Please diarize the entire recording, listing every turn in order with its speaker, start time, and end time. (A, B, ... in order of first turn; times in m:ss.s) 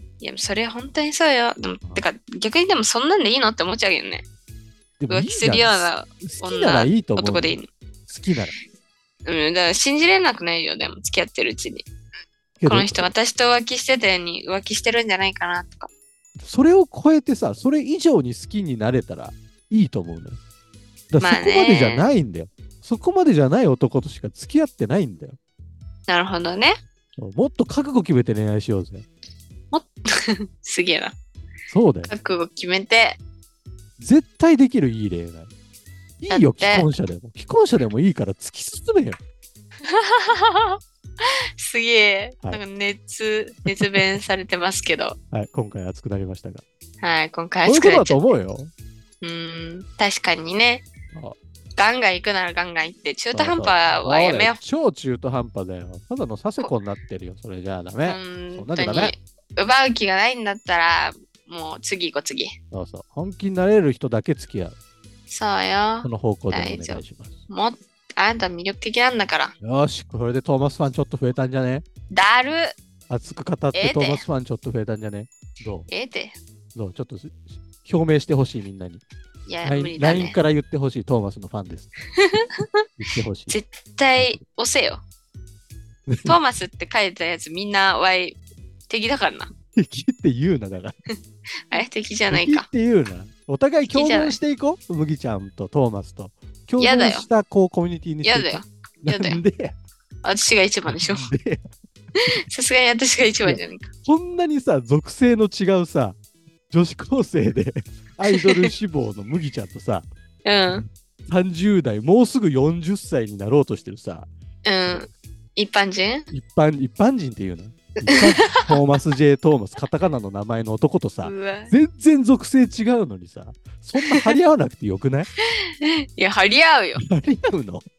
0:00.2-0:04.2 A
0:05.0-0:07.6 B
0:05.1-0:07.7 A
0:08.1-0:08.5 B
0:09.2-0:11.8 A
0:12.6-0:13.1 B
0:12.6-0:15.9 A
0:16.4-0:20.4 B
0:21.1-0:25.4 B
0:21.2-0:22.1 A
0:26.1-0:26.7 A
0:27.2-0:29.0 B
0:29.7-0:31.1 A
0:31.7-0:32.1 B
0:32.1-0:33.2 A
0:34.0-0:35.5 B
0:36.2-0:39.2 B
0:36.3-0:36.9 A
0:39.8-0:45.2 A
0:43.7-0:44.2 B
0:45.3-0:46.6 B
0:47.0-0:48.3 A
0:47.6-0:48.7 B
0:49.2-0:50.8 A
0:51.8-0:54.6 A
0:53.3-0:59.1 B
0:58.0-1:02.6 A
1:02.7-1:04.8 B
1:05.3-1:09.5 A
1:06.0-1:07.4 B
1:09.6-1:11.8 B
1:12.1-1:12.7 A
1:13.1-1:15.9 B
1:13.7-1:14.2 A
1:15.9-1:16.3 A
1:16.7-1:19.0 B
1:19.5-1:20.4 A
1:19.6-1:21.9 B
1:22.1-1:22.8 A
1:23.0-1:23.5 B
1:23.5-1:25.0 A
1:26.1-1:26.4 B
1:26.2-1:28.4 A
1:28.9-1:29.5 A
1:29.7-1:31.0 B
1:31.7-1:32.6 A
1:31.7-1:39.7 B
1:33.9-1:34.4 A
1:36.8-1:37.3 A
1:38.2-1:39.4 A
1:40.2-1:41.3 A
1:40.9-1:41.7 B
1:42.5-1:43.9 A
1:43.4-1:46.2 B
1:46.7-1:50.1 B
1:48.3-1:48.7 A
1:50.4-1:50.8 A
1:50.7-1:54.3 B
1:54.6-1:56.3 A
1:56.3-2:05.3 B
1:58.0-1:58.8 A
2:01.2-2:01.7 A
2:04.0-2:04.3 A
2:05.4-2:07.0 A
2:07.0-2:07.8 B